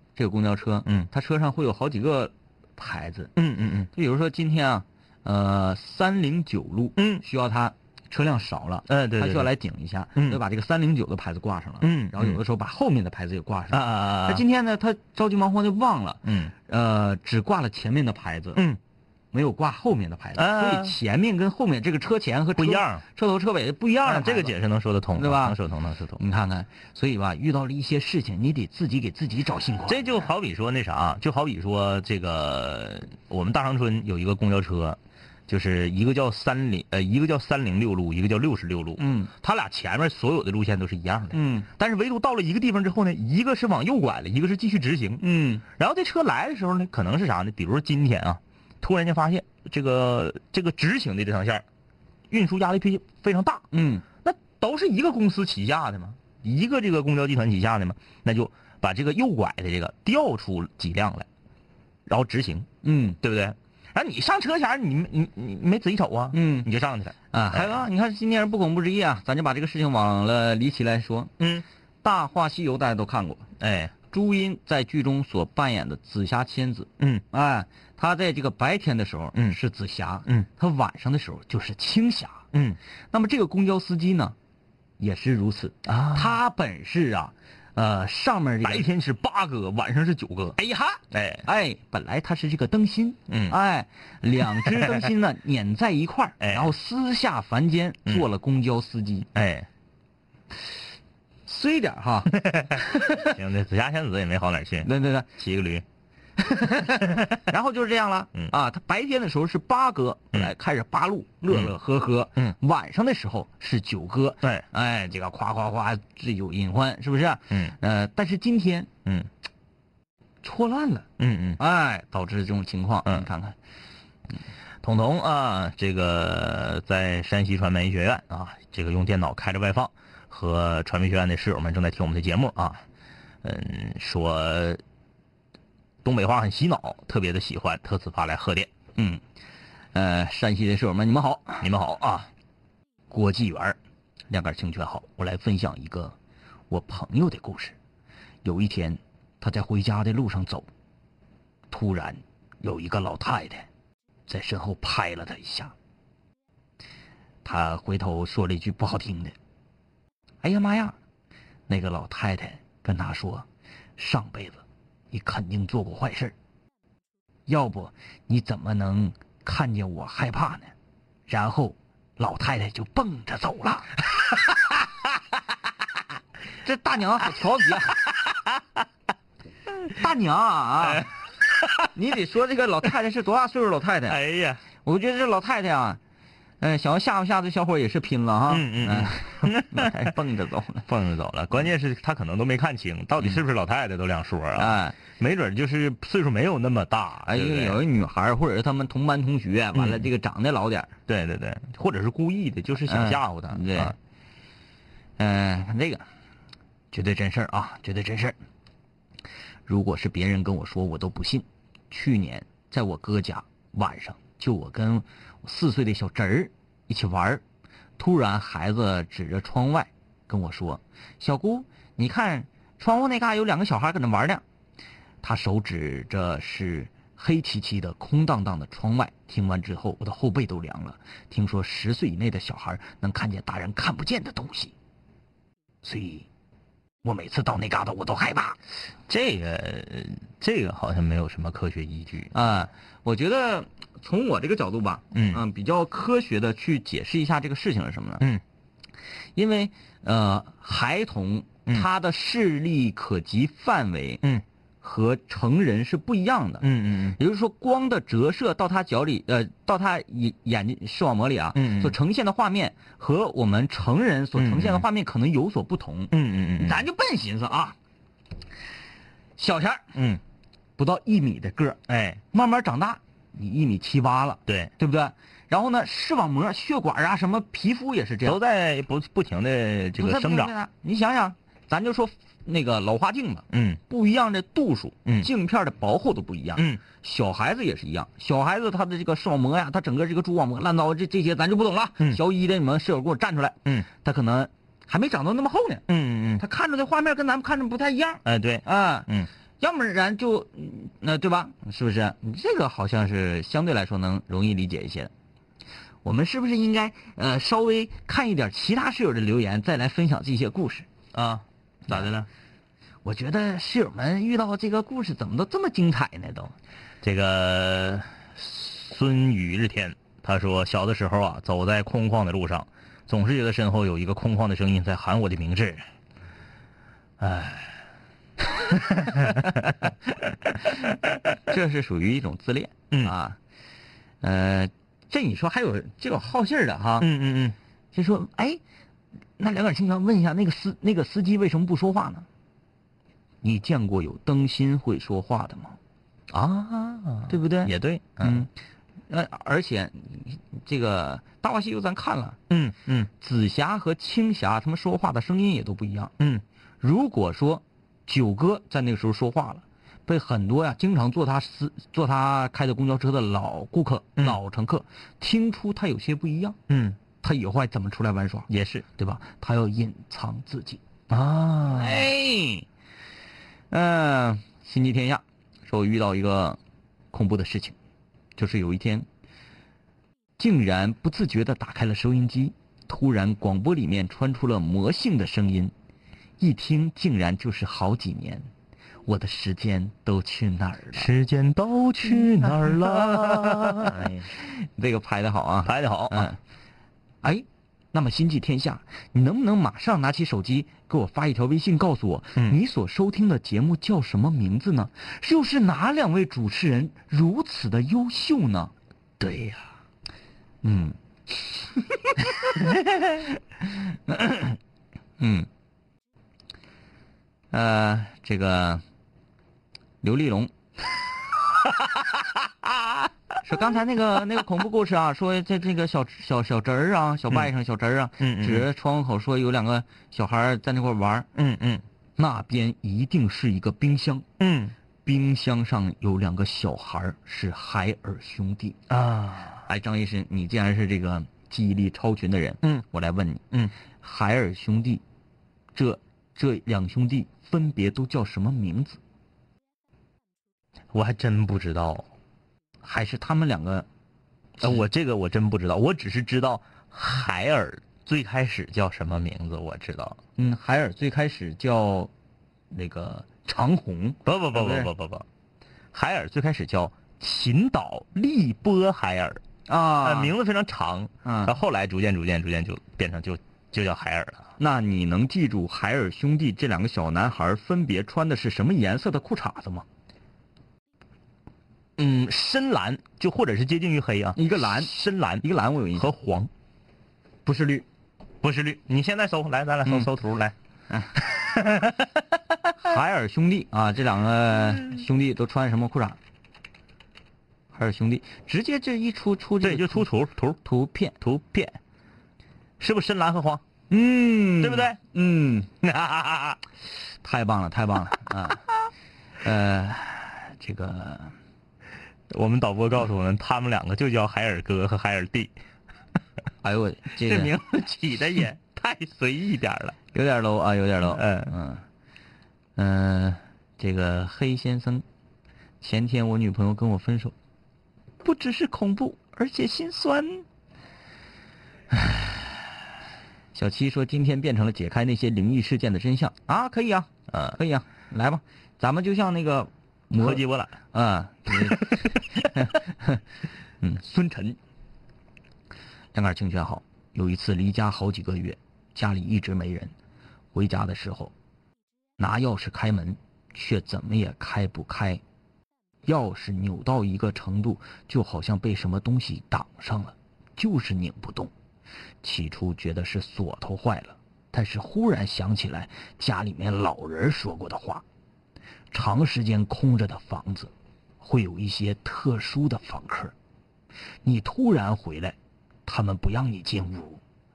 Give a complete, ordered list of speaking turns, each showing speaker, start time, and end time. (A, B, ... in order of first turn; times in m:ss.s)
0:00.2-0:03.3 A
0:03.4-0:03.9 B
0:03.9-0:18.6 A
0:07.0-0:07.2 B
0:08.9-0:09.5 B
0:10.2-0:10.4 B
0:11.8-0:12.4 B
0:13.7-0:14.4 B
0:16.2-0:16.5 B
0:19.3-0:24.5 A
0:20.4-0:21.0 B
0:22.6-0:23.0 B
0:24.0-0:26.2 B
0:25.2-0:25.6 A
0:26.2-0:30.2 A
0:29.9-0:51.6 B
0:39.0-0:39.3 A
0:41.3-0:41.7 A
0:45.2-0:45.6 A
0:52.3-0:53.7 B
0:53.7-0:54.0 A
0:54.2-1:01.3 B
1:02.0-1:07.8 B
1:02.8-1:03.2 A
1:06.3-1:06.7 A
1:07.3-1:11.3 A
1:11.4-1:11.6 B
1:12.0-1:13.5 A
1:13.6-1:13.9 B
1:14.1-1:22.4 A
1:17.0-1:17.2 B
1:22.5-1:22.8 B
1:23.1-1:24.4 A
1:25.0-1:28.9 A
1:25.9-1:26.4 B
1:28.6-1:30.6 B
1:30.6-1:39.3 A
1:31.1-1:31.4 B
1:33.3-1:33.6 B
1:34.6-1:35.1 B
1:36.4-1:36.7 B
1:39.3-1:39.7 B
1:41.4-1:43.4 A
1:42.4-1:45.8 B
1:44.8-1:45.3 A
1:46.4-1:58.9 A
1:51.5-1:51.7 B
2:00.4-2:01.1 A
2:01.2-2:01.6 B
2:01.6-2:03.5 A
2:04.8-2:12.8 B
2:13.4-2:14.8 B
2:16.0-2:18.7 B
2:19.0-2:19.2 A
2:19.9-2:21.7 A
2:21.6-2:22.3 B
2:23.1-2:23.8 A
2:24.3-2:26.1 A
2:26.7-2:27.8 A
2:28.4-2:30.7 A
2:31.7-2:33.7 A
2:34.3-2:35.7 A
2:37.4-2:39.3 A
2:40.4-2:41.0 A
2:41.7-2:43.4 A
2:44.0-2:46.3 A
2:47.5-2:50.7 A
2:51.3-2:54.0 A
2:56.6-2:58.1 A
2:59.9-3:01.1 A
3:00.8-3:01.9 B
3:01.9-3:04.2 A
3:04.1-3:04.6 B
3:04.8-3:06.0 A
3:06.6-3:10.9 A
3:08.5-3:10.1 B
3:10.9-3:17.8 B
3:14.6-3:15.0 A
3:17.3-3:20.9 A
3:19.7-3:20.1 B
3:21.1-3:24.0 B
3:22.8-3:24.0 A
3:25.2-3:26.0 A
3:26.9-3:28.4 A
3:29.7-3:37.4 A
3:38.0-3:44.4 A
3:45.2-3:54.7 A
3:55.8-3:56.3 A
3:57.0-3:58.6 A
3:59.1-4:02.3 B
4:02.3-4:08.2 A
4:05.1-4:05.4 B
4:09.4-4:14.2 A
4:14.8-4:27.8 A
4:16.6-4:17.2 B
4:21.5-4:22.0 B
4:24.4-4:24.8 B
4:26.1-4:26.8 B
4:29.4-4:29.8 A
4:29.9-4:30.2 B
4:30.8-4:31.8 A
4:31.9-4:32.2 B
4:32.3-4:38.4 A
4:34.5-4:34.7 B
4:38.2-4:40.5 B
4:40.0-4:55.8 A
4:43.5-4:43.8 B
4:46.6-4:46.8 B
4:55.9-4:56.4 B
4:56.4-4:59.1 A
4:58.2-4:59.3 B
4:59.6-5:05.1 A
5:06.0-5:10.9 A
5:11.1-5:12.3 B
5:13.0-5:16.5 A
5:17.0-5:25.8 B
5:27.2-5:27.8 B
5:28.5-5:31.1 B
5:31.4-5:33.4 A
5:34.2-5:37.1 A
5:37.0-5:37.6 B
5:37.9-5:38.6 A
5:39.4-5:42.2 A
5:43.4-5:45.8 A
5:46.3-5:48.5 B
5:47.3-5:48.5 A
5:49.1-5:52.4 A
5:52.5-5:53.1 B
5:53.2-5:56.1 A
5:56.2-5:56.4 B
5:56.8-6:06.6 A
6:06.7-6:07.0 B
6:07.2-6:10.8 A
6:08.5-6:08.8 B
6:11.1-6:12.1 B
6:11.7-6:12.7 A
6:13.7-6:16.6 A
6:17.1-6:17.8 A
6:18.4-6:19.0 A
6:20.4-6:25.7 A
6:26.4-6:28.5 A
6:29.0-6:31.1 A
6:30.9-6:34.3 B
6:32.4-6:36.4 A
6:35.6-6:36.3 B
6:37.2-6:49.6 A
6:50.6-6:52.6 A
6:54.1-6:54.6 A
6:55.2-6:55.5 A
6:57.5-6:58.8 A
7:00.0-7:00.5 A
7:03.4-7:11.3 A
7:08.2-7:08.7 B
7:11.3-7:11.8 B
7:12.2-7:14.2 A
7:14.4-7:14.7 B
7:15.0-7:18.8 A
7:18.9-7:19.6 B
7:19.6-7:23.4 A
7:24.0-7:25.0 A
7:25.7-7:29.0 A
7:30.9-7:32.1 B
7:32.8-7:33.8 A
7:34.6-7:40.2 B
7:40.4-7:42.1 A
7:42.7-7:44.9 A
7:44.2-7:45.2 B
7:45.9-7:49.4 B
7:49.7-7:50.3 A
7:50.0-7:54.5 B
7:51.2-7:51.6 A
7:54.6-7:59.8 A
8:02.0-8:06.5 B
8:04.4-8:06.1 A
8:07.4-8:07.8 A
8:08.4-8:10.5 B
8:11.2-8:12.2 B
8:12.8-8:16.2 A
8:17.7-8:20.1 A
8:19.6-8:20.6 B
8:20.6-8:21.2 A
8:21.2-8:21.8 B
8:22.8-8:23.6 B
8:23.9-8:25.7 A
8:24.6-8:25.0 B
8:25.8-8:26.6 B
8:27.2-8:28.6 A
8:29.4-8:31.3 A
8:32.3-8:35.5 B
8:36.6-8:37.6 A
8:37.2-8:40.0 B
8:40.1-8:41.8 A
8:41.0-8:41.5 B
8:42.8-8:45.0 A
8:45.8-8:47.3 A
8:48.2-8:50.4 A
8:53.5-9:03.2 A
8:57.3-8:57.6 B
9:00.2-9:00.8 B
9:01.5-9:02.5 B
9:03.8-9:04.6 A
9:06.1-9:09.9 A
9:10.5-9:11.3 A
9:12.2-9:15.2 A
9:16.0-9:21.5 A
9:22.2-9:28.0 A
9:28.9-9:33.3 A
9:34.2-9:37.2 A